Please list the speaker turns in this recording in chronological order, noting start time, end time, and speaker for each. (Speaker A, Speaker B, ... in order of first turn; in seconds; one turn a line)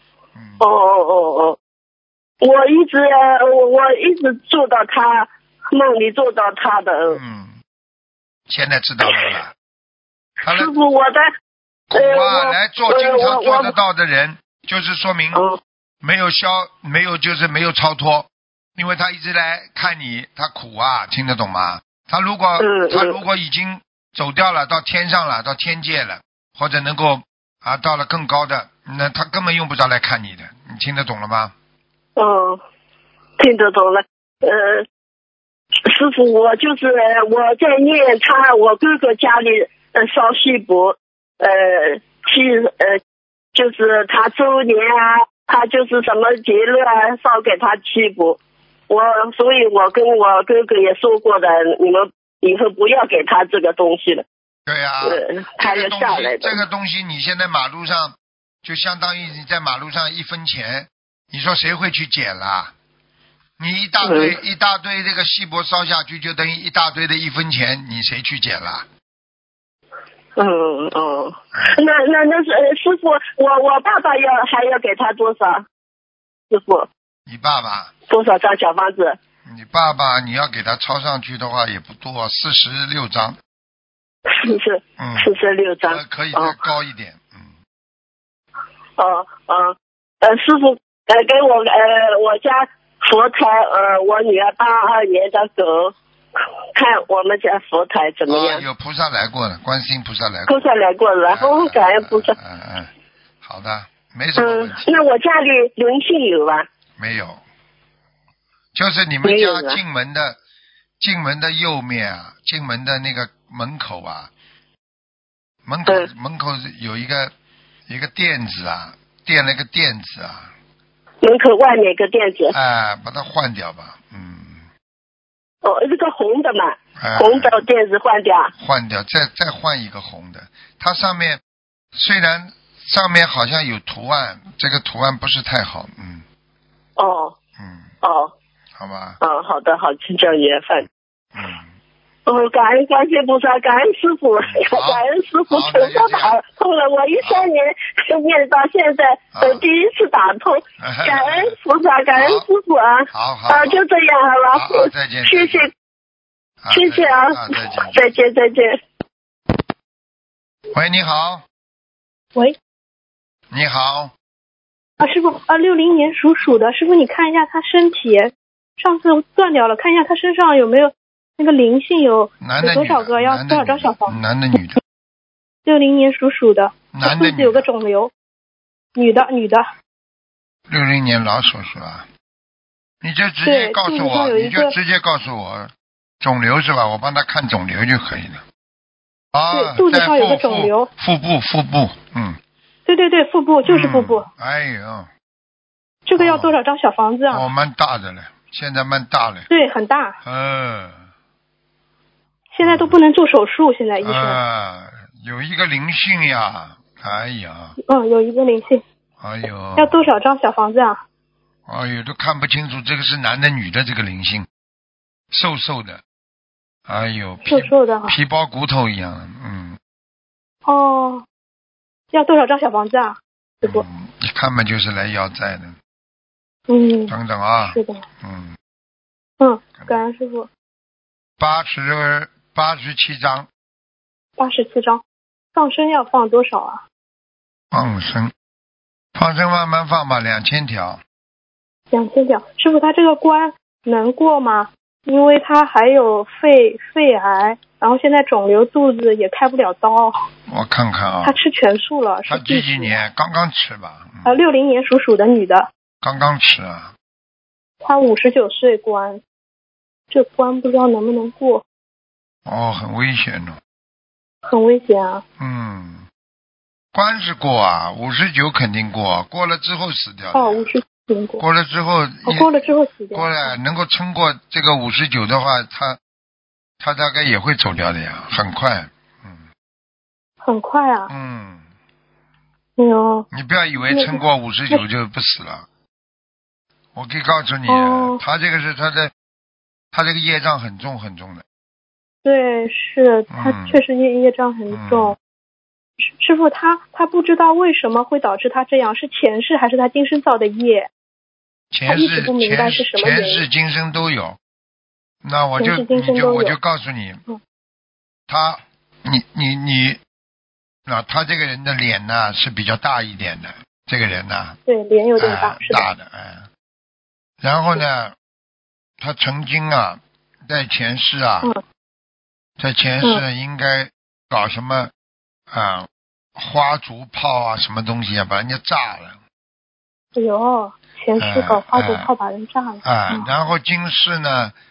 Speaker A: 0.3-0.6
Speaker B: 0.6-1.6
Speaker B: 2.4-7.2
Speaker A: 7.1-7.6
Speaker A: 8.5-9.5
Speaker A: 10.4-10.7
Speaker B: 10.4-11.3
Speaker A: 11.9-15.4
Speaker B: 11.9-13.7
Speaker B: 15.3-15.6
Speaker A: 16.0-31.5
Speaker B: 22.6-23.2
Speaker B: 32.1-32.6
Speaker B: 33.4-34.9
Speaker B: 35.9-43.0
Speaker B: 43.5-54.2
Speaker A: 54.6-62.7
Speaker B: 55.0-56.6
Speaker A: 63.6-68.9
Speaker B: 64.0-64.4
Speaker B: 70.4-75.6
Speaker A: 71.5-71.8
Speaker B: 76.5-76.9
Speaker A: 77.3-77.9
Speaker B: 78.1-79.2
Speaker A: 79.5-83.4
Speaker B: 84.3-86.6
Speaker A: 85.0-85.3
Speaker A: 85.8-87.5
Speaker B: 89.0-95.9
Speaker B: 96.8-98.6
Speaker A: 98.3-100.7
Speaker B: 100.5-102.3
Speaker A: 101.3-102.9
Speaker A: 103.4-105.0
Speaker B: 104.4-106.7
Speaker A: 107.0-107.4
Speaker A: 108.8-110.4
Speaker B: 109.2-109.8
Speaker A: 111.0-114.3
Speaker A: 115.7-117.3
Speaker A: 117.9-120.5
Speaker B: 121.2-122.5
Speaker A: 122.5-124.7
Speaker B: 125.6-128.5
Speaker A: 127.0-127.6
Speaker A: 128.6-131.4
Speaker A: 131.9-136.2
Speaker B: 137.0-137.4
Speaker A: 137.6-137.9
Speaker B: 138.0-138.3
Speaker A: 138.8-139.2
Speaker B: 139.2-140.9
Speaker A: 141.3-141.7
Speaker B: 142.2-155.7
Speaker A: 144.4-146.4
Speaker A: 147.2-147.5
Speaker A: 149.3-149.6
Speaker A: 150.8-151.6
Speaker A: 152.1-152.4
Speaker A: 153.1-153.8
Speaker A: 154.5-155.7
Speaker A: 156.6-158.2
Speaker B: 156.7-158.8
Speaker A: 160.7-161.4
Speaker A: 163.5-164.1
Speaker C: 165.0-174.2
Speaker A: 172.4-174.8
Speaker C: 175.6-178.1
Speaker A: 176.9-177.7
Speaker C: 178.9-179.6
Speaker A: 180.7-182.1
Speaker A: 183.0-188.4
Speaker C: 183.4-184.7
Speaker A: 189.3-192.4
Speaker C: 189.5-190.9
Speaker C: 192.9-194.3
Speaker A: 193.6-195.1
Speaker C: 196.1-197.4
Speaker A: 196.2-196.5
Speaker A: 197.3-199.5
Speaker C: 199.5-200.2
Speaker A: 200.2-201.0
Speaker C: 202.5-204.4
Speaker A: 202.6-203.0
Speaker A: 204.0-207.8
Speaker C: 207.9-208.8
Speaker A: 209.2-210.1
Speaker C: 209.8-211.0
Speaker A: 211.7-214.5
Speaker A: 215.3-216.0
Speaker A: 216.9-219.8
Speaker C: 217.5-218.1
Speaker C: 220.6-221.2
Speaker C: 222.1-223.8
Speaker A: 223.6-225.8
Speaker C: 226.7-227.1
Speaker A: 227.1-228.6
Speaker C: 227.7-228.0
Speaker C: 229.4-230.5
Speaker A: 231.4-233.5
Speaker C: 234.4-235.0
Speaker C: 235.5-236.8
Speaker A: 237.7-238.3
Speaker A: 239.1-241.0
Speaker C: 241.9-250.2
Speaker A: 250.5-251.4
Speaker C: 251.2-253.0
Speaker A: 252.3-254.4
Speaker C: 254.2-255.7
Speaker A: 256.0-256.9
Speaker C: 257.8-259.2
Speaker C: 260.1-261.6
Speaker A: 262.5-263.6
Speaker C: 264.4-265.2
Speaker A: 265.4-266.1
Speaker A: 266.9-270.7
Speaker C: 270.3-271.4
Speaker A: 271.4-276.0
Speaker C: 272.2-273.5
Speaker A: 276.8-279.4
Speaker C: 280.4-281.1
Speaker A: 281.1-281.6
Speaker C: 282.8-283.3
Speaker A: 283.3-285.6
Speaker C: 283.9-284.2
Speaker A: 286.9-289.1
Speaker C: 287.7-288.2
Speaker A: 289.9-291.4
Speaker C: 292.2-295.2
Speaker A: 293.3-293.8
Speaker A: 294.7-295.1
Speaker C: 296.0-300.9
Speaker A: 301.7-304.4
Speaker C: 301.9-303.4
Speaker A: 305.2-307.2
Speaker C: 305.6-306.5
Speaker A: 308.3-310.0
Speaker A: 310.9-314.6
Speaker C: 314.6-315.9
Speaker A: 315.2-316.5
Speaker A: 317.4-318.1
Speaker A: 319.0-321.5
Speaker A: 322.6-324.9
Speaker A: 325.5-329.2
Speaker C: 330.1-333.3
Speaker A: 331.2-332.1
Speaker A: 332.8-334.5